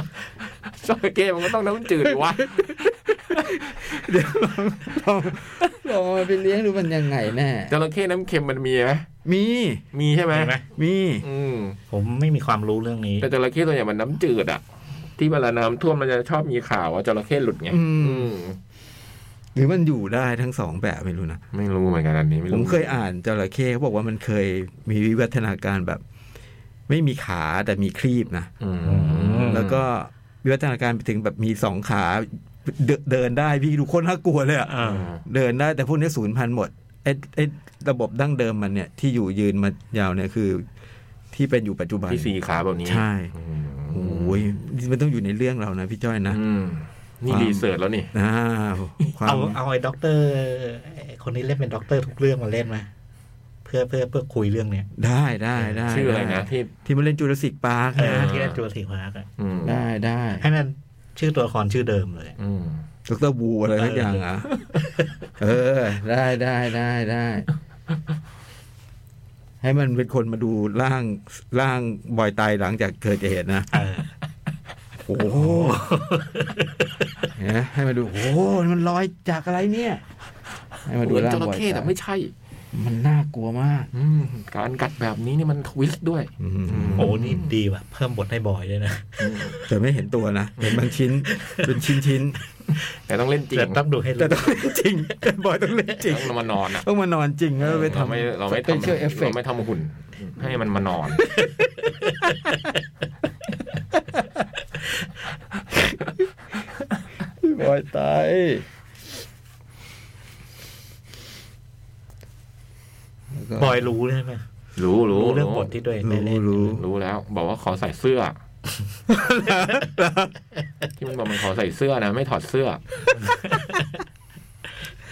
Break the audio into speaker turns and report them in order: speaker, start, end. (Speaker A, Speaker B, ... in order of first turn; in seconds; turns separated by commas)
Speaker A: 0.7-4.0, Speaker B: 2.0-2.8, Speaker B: 3.3-7.8, Speaker A: 7.7-9.1, Speaker B: 9.2-9.8, Speaker A: 9.9-10.5, Speaker C: 10.3-10.7, Speaker B: 10.7-11.2, Speaker A: 11.2-11.8, Speaker C: 11.9-13.3, Speaker A: 13.2-14.6, Speaker A: 15.2-18.6, Speaker B: 17.7-18.4, Speaker B: 19.6-21.4, Speaker A: 21.5-23.0, Speaker B: 22.5-26.0, Speaker B: 26.9-28.5, Speaker A: 28.6-29.9, Speaker C: 28.9-29.6, Speaker B: 29.4-40.7, Speaker C: 34.7-35.1, Speaker A: 34.8-35.2, Speaker B: 41.3-42.3, Speaker A: 42.1-44.4, Speaker B: 42.9-43.3, Speaker B: 43.9-46.4, Speaker A: 46.3-48.1, Speaker B: 47.3-49.6, Speaker C: 49.3-52.9, Speaker C: 53.6-54.9, Speaker B: 55.0-58.3, Speaker C: 55.6-56.0, Speaker A: 55.9-56.7, Speaker C: 58.0-59.3, Speaker A: 58.0-58.6, Speaker A: 59.4-59.8, Speaker B: 59.6-60.5, Speaker C: 60.4-62.4, Speaker A: 62.4-62.8, Speaker B: 63.1-64.5, Speaker C: 63.8-65.1, Speaker B: 65.4-67.5, Speaker B: 69.6-73.7, Speaker C: 73.7-74.2, Speaker B: 75.0-75.9, Speaker C: 75.2-77.2, Speaker B: 77.3-80.0, Speaker B: 80.9-81.9, Speaker A: 81.0-82.3, Speaker B: 82.7-83.9, Speaker A: 83.9-87.5, Speaker B: 86.4-87.2, Speaker C: 87.0-89.7, Speaker A: 89.2-89.6, Speaker B: 89.7-92.4, Speaker A: 90.6-90.9, Speaker C: 91.2-91.8, Speaker A: 93.1-93.8, Speaker C: 93.5-94.8, Speaker B: 94.2-99.4, Speaker A: 96.0-96.8, Speaker A: 97.6-101.2, Speaker C: 102.0-102.6, Speaker B: 107.4-108.7, Speaker B: 113.3-113.8, Speaker C: 113.6-114.5, Speaker A: 114.8-115.7, Speaker C: 115.1-116.8, Speaker B: 116.0-116.8, Speaker A: 116.8-118.4, Speaker B: 119.1-120.3, Speaker A: 121.0-122.8, Speaker C: 123.1-124.0